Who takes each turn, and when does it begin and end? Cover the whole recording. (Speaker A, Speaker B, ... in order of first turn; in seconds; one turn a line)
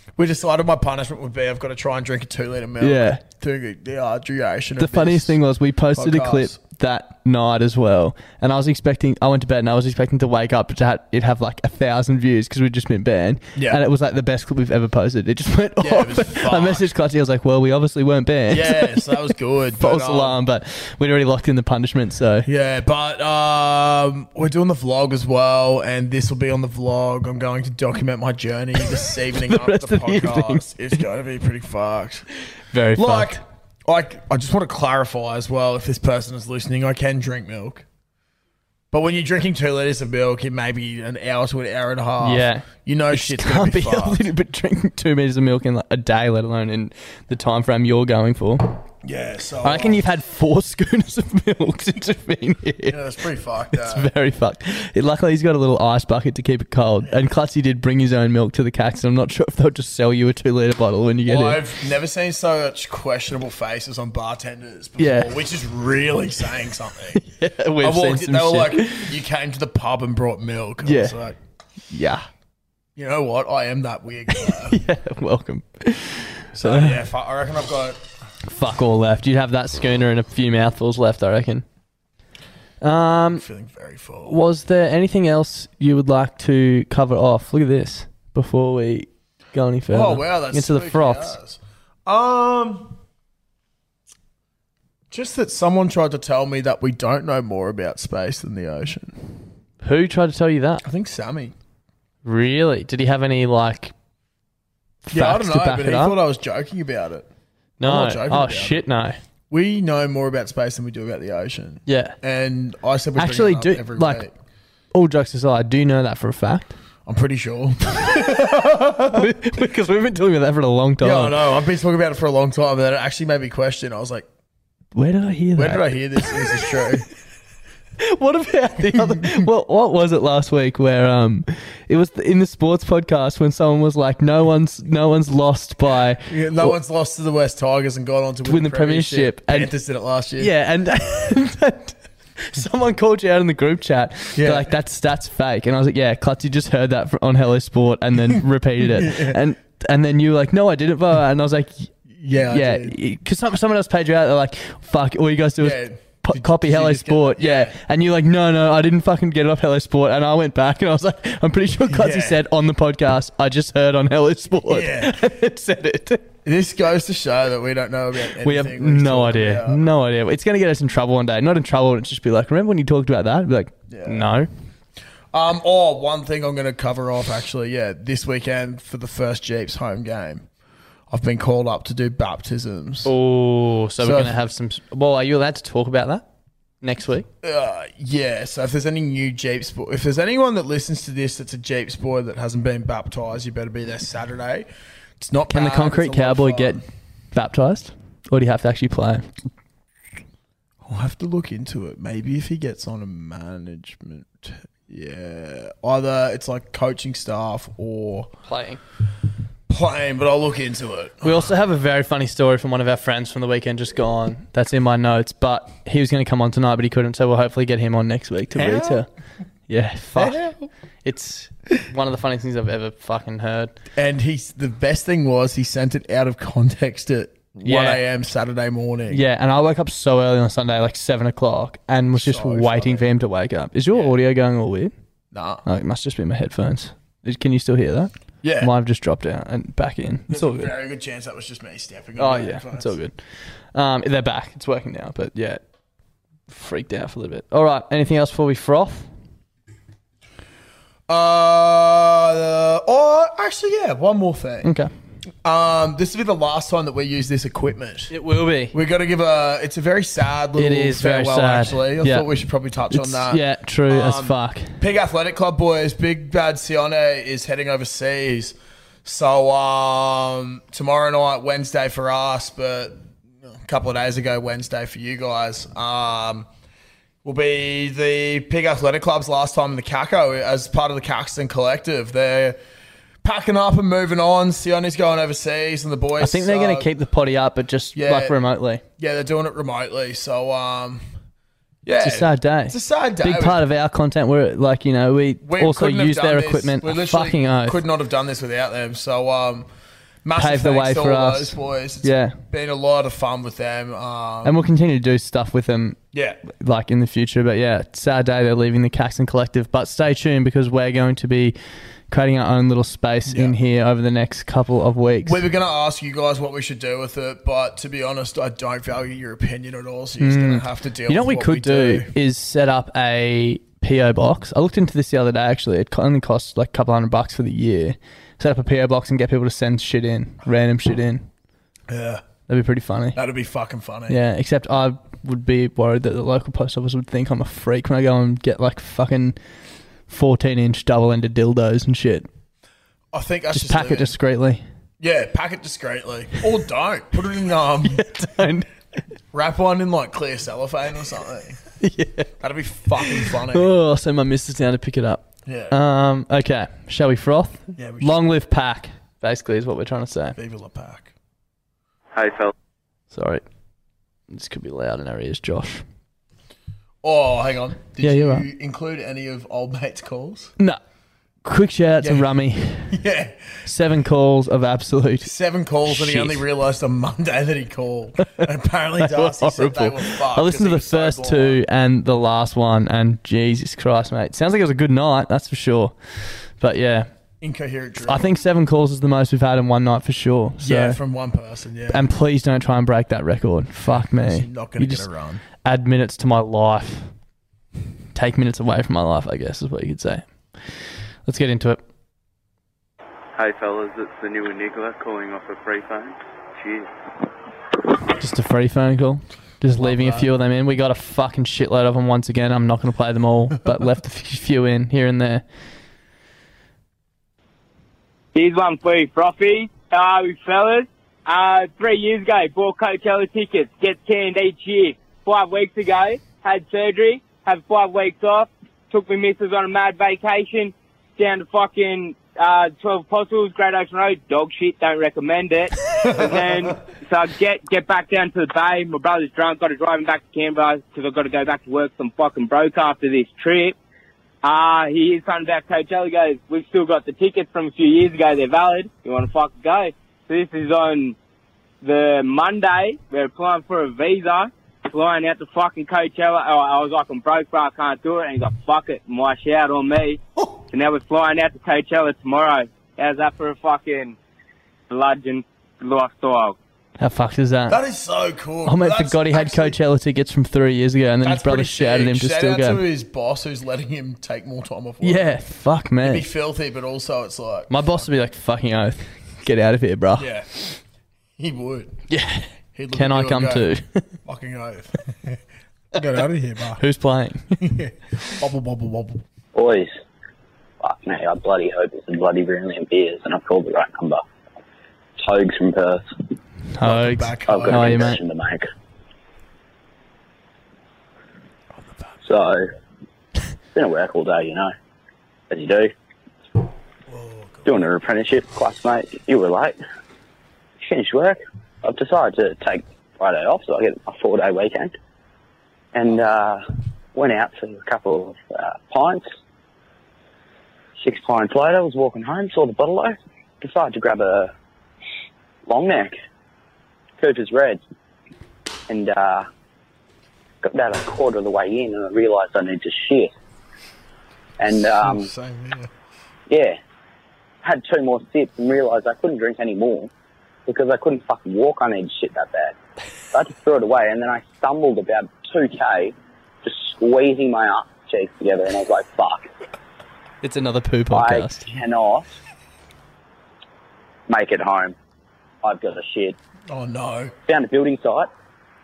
Speaker A: 0.2-5.4
Speaker B: 2.8-3.2
Speaker B: 4.8-19.2
Speaker A: 5.9-6.6
Speaker A: 13.6-13.8
Speaker A: 15.8-16.9
Speaker A: 18.5-20.4
Speaker B: 19.8-22.5
Speaker A: 22.4-32.3
Speaker B: 29.3-31.0
Speaker B: 32.7-33.4
Speaker A: 32.9-37.8
Speaker A: 38.9-44.3
Speaker B: 42.2-48.8
Speaker A: 49.0-50.0
Speaker B: 49.6-53.0
Speaker A: 52.9-54.1
Speaker B: 53.7-61.6
Speaker A: 61.3-67.2
Speaker B: 65.0-65.3
Speaker B: 67.2-69.1
Speaker A: 67.8-71.4
Speaker B: 70.8-71.2
Speaker B: 71.9-72.3
Speaker A: 73.0-74.8
Speaker B: 74.4-77.0
Speaker A: 76.5-78.0
Speaker B: 78.4-81.6
Speaker B: 82.8-83.4
Speaker A: 83.3-84.4
Speaker B: 84.3-91.3
Speaker A: 89.9-93.0
Speaker A: 95.1-99.2
Speaker B: 99.8-100.8
Speaker A: 100.8-101.5
Speaker B: 102.2-103.9
Speaker B: 105.0-106.2
Speaker A: 105.1-107.3
Speaker B: 107.8-109.2
Speaker A: 107.8-108.8
Speaker A: 109.5-114.3
Speaker B: 111.9-112.1
Speaker B: 113.2-114.2
Speaker B: 114.9-116.8
Speaker A: 117.0-119.3
Speaker B: 119.0-121.4
Speaker A: 121.0-124.3
Speaker B: 124.9-126.7
Speaker A: 125.6-127.0
Speaker B: 128.0-136.8
Speaker A: 128.9-129.4
Speaker A: 136.3-140.5
Speaker B: 138.5-139.7
Speaker B: 140.4-151.9
Speaker A: 144.4-144.8
Speaker A: 148.9-149.4
Speaker A: 152.1-152.9
Speaker B: 152.5-166.3
Speaker A: 155.6-157.8
Speaker A: 161.9-162.4
Speaker A: 164.7-165.3
Speaker A: 166.4-169.8
Speaker B: 168.4-174.5
Speaker A: 173.9-174.3
Speaker A: 175.3-180.4
Speaker A: 181.1-183.1
Speaker B: 183.1-186.2
Speaker A: 184.0-184.4
Speaker B: 186.8-187.3
Speaker A: 187.4-196.8
Speaker B: 195.5-196.8
Speaker B: 197.3-199.3
Speaker A: 200.8-208.3
Speaker B: 208.4-208.8
Speaker A: 209.7-211.5
Speaker B: 211.2-219.1
Speaker A: 218.5-219.1
Speaker B: 219.7-220.5
Speaker A: 220.2-220.7
Speaker B: 221.0-223.7
Speaker A: 223.9-229.2
Speaker B: 227.6-228.0
Speaker B: 229.1-234.9
Speaker A: 232.1-233.1
Speaker A: 233.9-234.2
Speaker A: 235.3-235.6
Speaker B: 235.6-240.7
Speaker A: 238.4-238.7
Speaker A: 240.3-242.9
Speaker B: 242.2-243.2
Speaker B: 243.7-245.6
Speaker B: 246.5-249.1
Speaker A: 251.1-254.7
Speaker B: 254.6-254.9
Speaker A: 255.4-258.1
Speaker B: 258.1-258.7
Speaker A: 258.7-276.5
Speaker B: 260.6-262.3
Speaker B: 262.9-264.8
Speaker A: 277.2-282.6
Speaker A: 283.2-286.9
Speaker B: 286.2-288.8
Speaker A: 287.9-288.4
Speaker A: 289.0-291.1
Speaker A: 291.8-293.6
Speaker B: 292.0-297.8
Speaker A: 295.4-299.7
Speaker A: 300.2-304.6
Speaker B: 300.4-302.4
Speaker B: 304.4-306.0
Speaker A: 306.1-306.4
Speaker B: 306.5-311.6
Speaker B: 312.1-315.4
Speaker A: 313.3-313.6
Speaker A: 315.2-322.1
Speaker B: 320.2-331.3
Speaker A: 331.9-332.2
Speaker B: 332.5-333.2
Speaker A: 333.1-334.2
Speaker B: 334.1-339.4
Speaker B: 340.1-342.3
Speaker A: 343.1-344.1
Speaker B: 343.5-344.6
Speaker A: 345.0-348.1
Speaker B: 347.9-348.7
Speaker A: 349.3-351.6
Speaker B: 351.8-352.3
Speaker A: 352.4-353.7
Speaker B: 353.1-360.4
Speaker A: 355.4-355.8
Speaker A: 357.8-358.2
Speaker A: 360.4-361.1
Speaker C: 362.1-362.5
Speaker B: 363.1-363.4
Speaker B: 364.3-365.8
Speaker A: 367.0-370.5
Speaker B: 368.0-368.4
Speaker B: 371.4-373.0
Speaker A: 372.0-372.3
Speaker A: 372.9-373.6
Speaker B: 373.6-375.3
Speaker A: 375.2-381.6
Speaker B: 375.9-376.4
Speaker B: 379.0-387.1
Speaker A: 387.4-388.3
Speaker B: 388.1-391.0
Speaker A: 390.6-392.1
Speaker B: 391.9-395.1
Speaker A: 394.0-395.4
Speaker B: 395.6-397.1
Speaker B: 398.1-400.3
Speaker B: 401.3-401.8
Speaker C: 403.4-406.9
Speaker B: 408.1-415.4
Speaker A: 409.8-410.3
Speaker D: 418.3-443.8
Speaker A: 436.0-436.7
Speaker D: 444.4-451.2
Speaker D: 451.8-464.2
Speaker D: 464.9-466.6
Speaker B: 467.0-467.8
Speaker A: 467.7-469.8
Speaker B: 468.6-472.8
Speaker A: 471.2-475.4
Speaker B: 475.0-476.2
Speaker A: 476.0-478.1
Speaker B: 477.7-480.3
Speaker A: 480.1-480.8
Speaker A: 481.4-482.0
Speaker B: 482.1-484.1
Speaker A: 482.7-483.7
Speaker A: 484.2-485.4
Speaker A: 485.9-486.8
Speaker B: 486.8-487.6
Speaker A: 487.6-489.2
Speaker E: 489.6-489.9
Speaker E: 490.8-494.2
Speaker E: 495.2-496.1
Speaker B: 496.7-498.2
Speaker A: 496.8-498.1
Speaker E: 497.5-498.6
Speaker A: 501.8-502.2
Speaker E: 502.2-502.6
Speaker E: 503.7-504.7
Speaker E: 505.5-505.9
Speaker A: 507.1-507.7
Speaker E: 507.6-509.8
Speaker E: 510.8-514.9
Speaker E: 515.9-516.6
Speaker E: 517.1-519.2
Speaker E: 521.0-524.5
Speaker E: 525.7-526.1
Speaker E: 527.2-527.8
Speaker E: 528.9-529.5
Speaker E: 530.6-533.3
Speaker E: 534.6-535.3
Speaker A: 534.9-535.9
Speaker E: 536.5-536.8
Speaker E: 537.6-540.1
Speaker E: 540.7-542.8
Speaker E: 543.3-549.5
Speaker B: 550.4-551.7
Speaker E: 551.1-552.3
Speaker E: 554.3-554.9
Speaker E: 555.6-556.4
Speaker A: 556.7-557.3
Speaker E: 557.5-558.3